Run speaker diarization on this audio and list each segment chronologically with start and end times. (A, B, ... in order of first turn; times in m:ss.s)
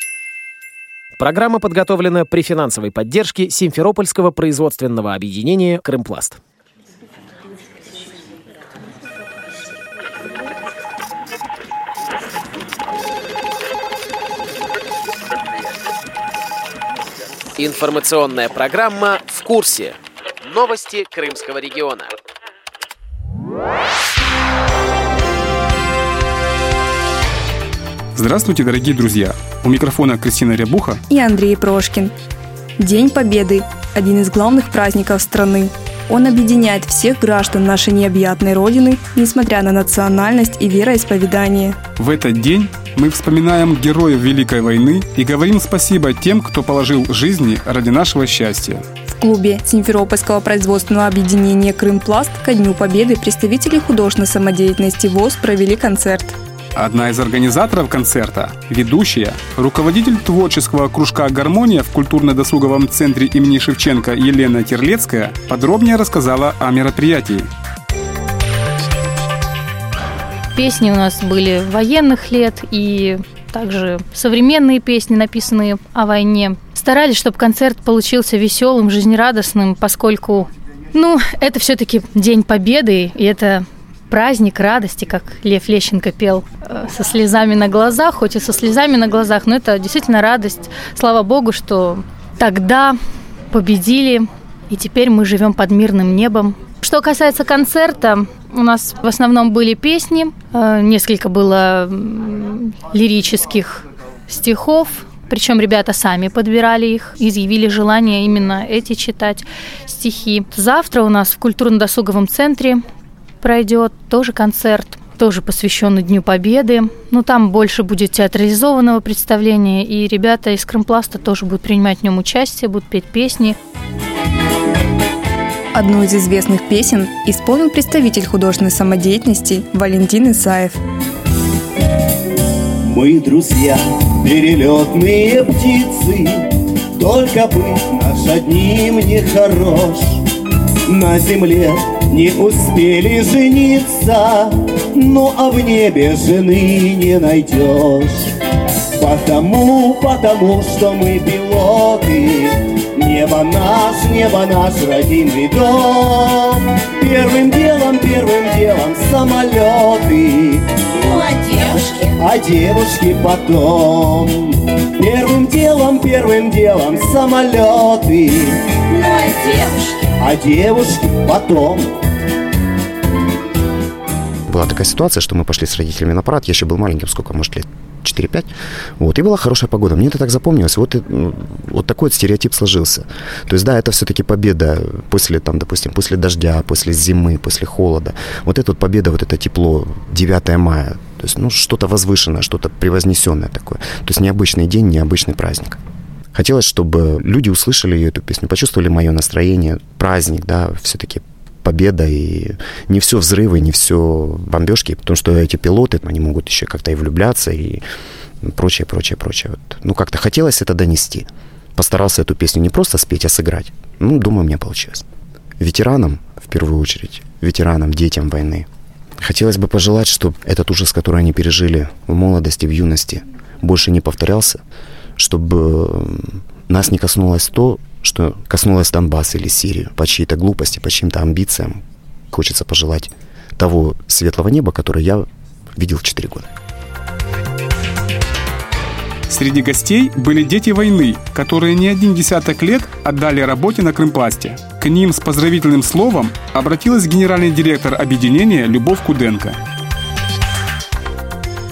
0:01.2-0:06.4 A
0:17.6-0:22.1 A
0:28.2-0:31.0 B
0:31.1-0:32.1 C
0:32.8-0:41.8 C
0:42.0-0:48.8 B
0:49.1-0:56.4 C
0:56.8-1:07.5 B
1:10.5-1:33.0 D
1:33.5-1:52.8 D
1:53.4-2:03.6 D
2:05.7-2:10.8 C
2:12.8-2:16.3 E
2:17.0-2:20.2 E
2:20.9-2:28.3 E
2:29.0-2:40.6 E
2:41.1-2:42.1 F
2:42.2-2:48.6 E
2:49.0-2:50.0 F
2:50.2-2:51.8 E
2:54.5-3:15.8 G
3:16.3-3:27.8 G
3:28.4-3:35.0 G
3:35.6-3:38.7 G
3:39.2-3:44.6 G
3:45.2-3:51.8 G
3:52.3-3:55.3 G
3:55.8-3:56.5 G
3:59.3-4:09.6 B